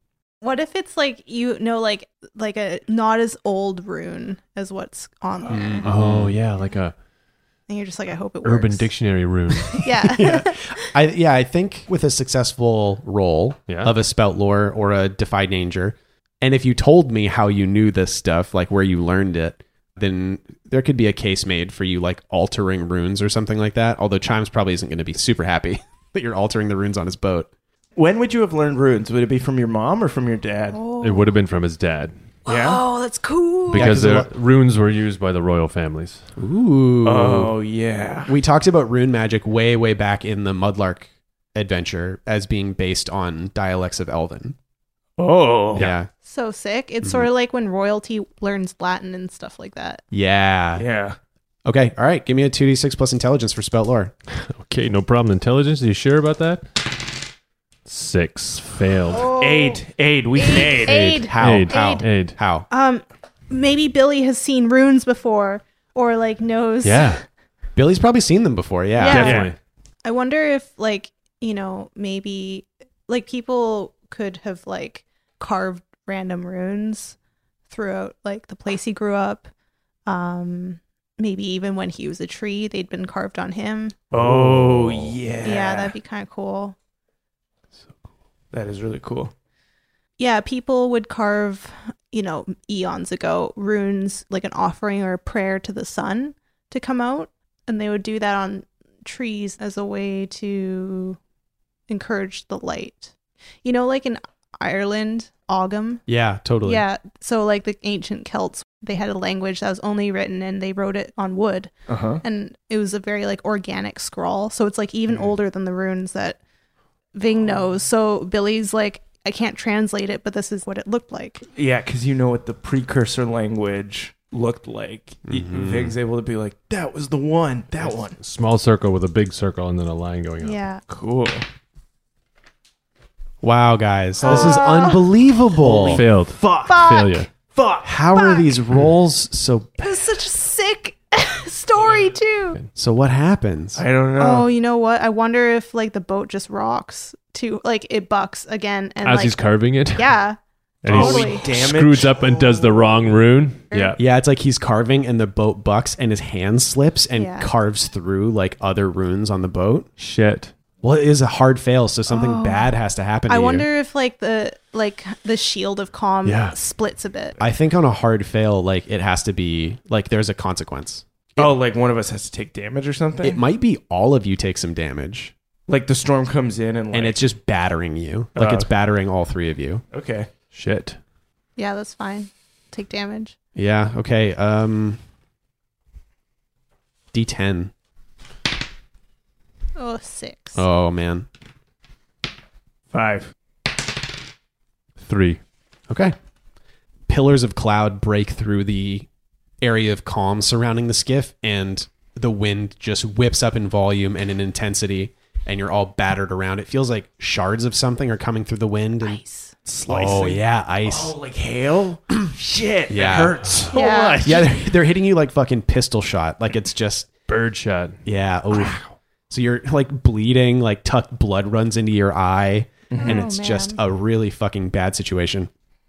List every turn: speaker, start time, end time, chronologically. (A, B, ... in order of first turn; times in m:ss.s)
0:00.4-0:05.9 A
0:05.5-0:06.4 B
0:05.8-0:06.9 C
0:07.7-0:08.9 A
0:08.4-0:09.9 C
0:09.7-0:10.8 A
0:10.0-0:27.5 B
0:13.7-0:13.9 C
0:28.0-0:30.8 D
0:30.7-0:31.3 A
0:31.0-0:32.1 C
0:32.4-0:32.8 D
0:32.5-0:33.9 A
0:33.7-0:36.2 C
0:33.7-0:34.3 B
0:36.4-0:37.5 B
0:37.0-0:38.3 D
0:38.3-0:44.6 B
0:45.2-0:45.9 D
0:45.7-0:46.1 B
0:46.2-0:50.0 A
0:50.1-0:50.8 B
0:50.8-0:51.2 D
0:51.6-0:54.1 B
0:54.5-0:56.7 C
0:57.8-0:59.3 C
0:59.1-0:59.8 A
0:59.3-1:01.2 D
1:00.4-1:02.0 A
1:00.9-1:02.7 B
1:01.4-1:02.4 C
1:02.7-1:07.2 A
1:06.8-1:07.2 C
1:07.8-1:09.4 B
1:09.0-1:09.4 A
1:09.1-1:09.6 C
1:09.1-1:09.5 D
1:10.0-1:17.2 A
1:17.7-1:19.5 A
1:20.0-1:23.9 A
1:24.1-1:25.9 D
1:24.2-1:25.1 C
1:25.4-1:26.8 A
1:28.5-1:29.3 D
1:30.2-1:41.2 A
1:41.9-1:43.1 A
1:43.6-1:46.0 A
1:46.1-1:46.8 B
1:46.6-1:51.7 A
1:51.9-1:52.2 D
1:52.2-1:56.4 A
1:57.1-2:01.4 A
2:01.5-2:08.2 D
2:05.3-2:05.9 B
2:08.2-2:10.6 C
2:10.4-2:10.8 A
2:10.9-2:11.4 D
2:13.4-2:16.0 B
2:14.2-2:14.7 D
2:14.2-2:15.1 A
2:15.6-2:17.9 D
2:15.8-2:17.3 C
2:16.6-2:17.2 A
2:17.8-2:20.0 B
2:18.1-2:18.5 A
2:19.8-2:22.6 A
2:22.8-2:23.8 B
2:23.8-2:24.5 D
2:24.2-2:31.4 A
2:29.0-2:30.1 C
2:30.8-2:34.0 C
2:30.9-2:32.9 D
2:33.7-2:34.0 A
2:34.0-2:39.9 B
2:37.2-2:37.5 A
2:40.0-2:40.5 C
2:40.8-2:43.7 B
2:42.1-2:42.7 A
2:43.3-2:47.4 A
2:46.2-2:46.6 C
2:47.4-2:51.5 B
2:51.4-2:53.4 D
2:53.2-2:55.3 B
2:55.7-2:57.2 D
2:56.9-2:59.8 B
2:58.3-2:58.7 D
2:59.9-3:00.3 D
3:00.5-3:01.0 C
3:01.6-3:03.3 A
3:03.6-3:05.0 B
3:07.1-3:07.7 B
3:09.8-3:10.6 A
3:10.5-3:11.3 B
3:12.9-3:13.3 D
3:15.0-3:15.4 C
3:15.9-3:16.1 B
3:17.1-3:19.1 B
3:19.6-3:29.2 B
3:29.0-3:29.5 A
3:29.6-3:34.5 D
3:29.9-3:31.1 B
3:32.9-3:33.4 B
3:33.7-3:34.4 A
3:34.2-3:37.1 B
3:37.3-3:38.0 C
3:38.0-3:38.8 B
3:39.3-3:45.5 B
3:42.9-3:43.2 D
3:43.0-3:43.8 A